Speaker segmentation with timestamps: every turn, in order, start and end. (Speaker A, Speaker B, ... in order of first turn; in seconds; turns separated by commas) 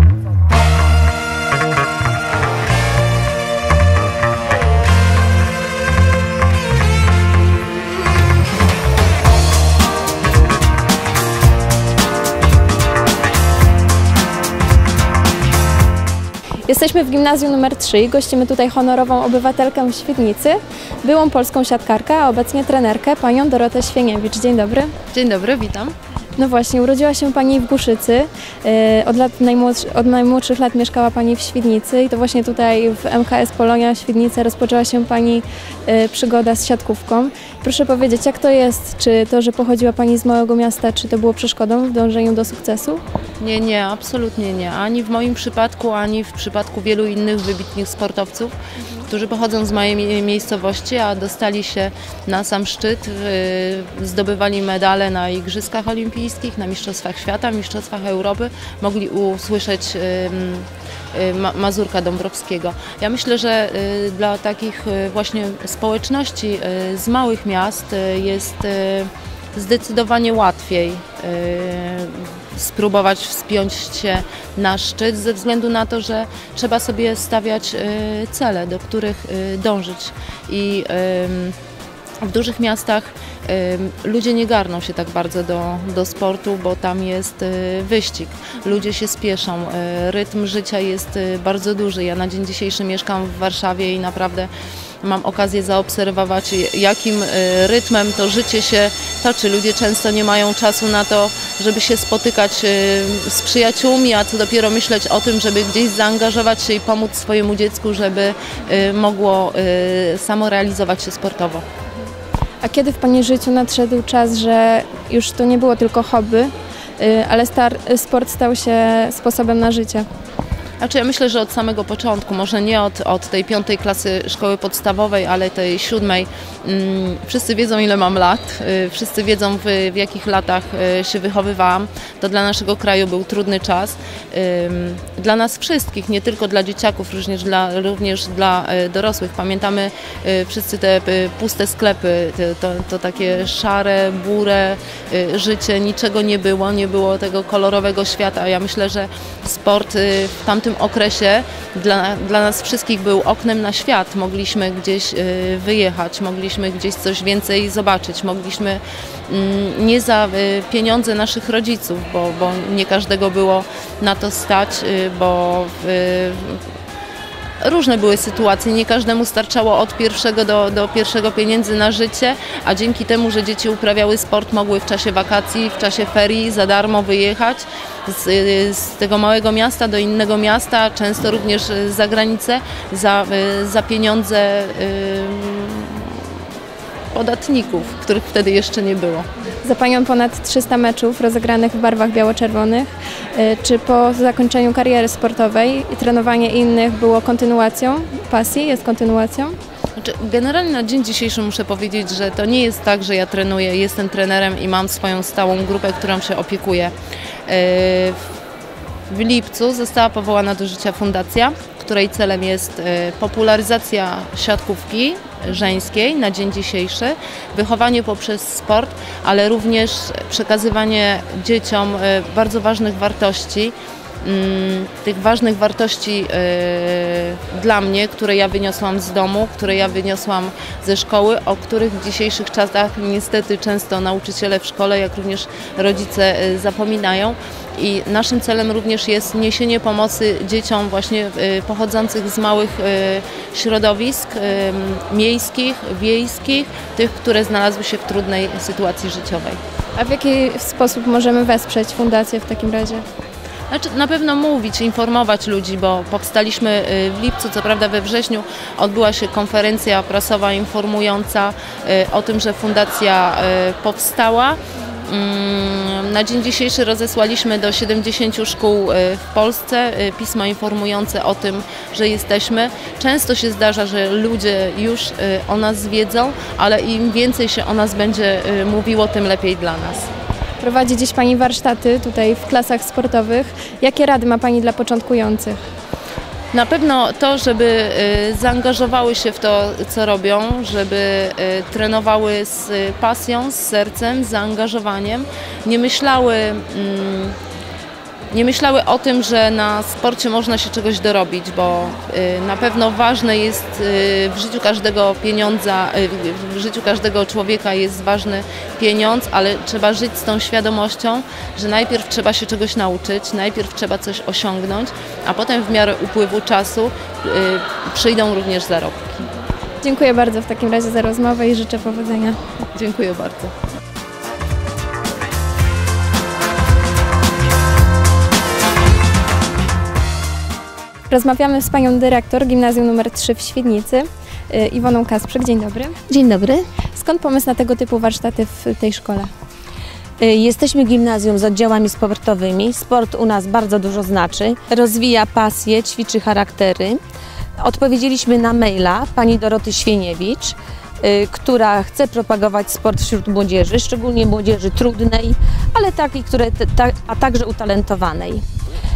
Speaker A: 16.7-24.9, Speaker B: 25.1-25.9, Speaker A: 26.4-43.0, Speaker B: 43.4-48.5, Speaker B: 49.1-81.5, Speaker B: 82.2-94.5, Speaker B: 95.0-111.6, Speaker A: 112.6-120.0, Speaker B: 120.8-166.6, Speaker B: 167.6-186.4, Speaker B: 187.1-189.3, Speaker A: 189.6-199.6, Speaker B: 200.0-206.9, Speaker B: 207.5-208.2, Speaker B: 209.1-249.6, Speaker A: 249.9-253.0, Speaker B: 253.7-280.1, Speaker A: 280.6-285.6, Speaker B: 286.5-297.4, Speaker B: 298.3-319.3, Speaker A: 319.8-322.4, Speaker B: 322.7-323.5, Speaker A: 331.1-336.0, Speaker C: 336.1-336.7, Speaker A: 336.9-339.3, Speaker C: 340.2-347.0, Speaker C: 347.6-358.4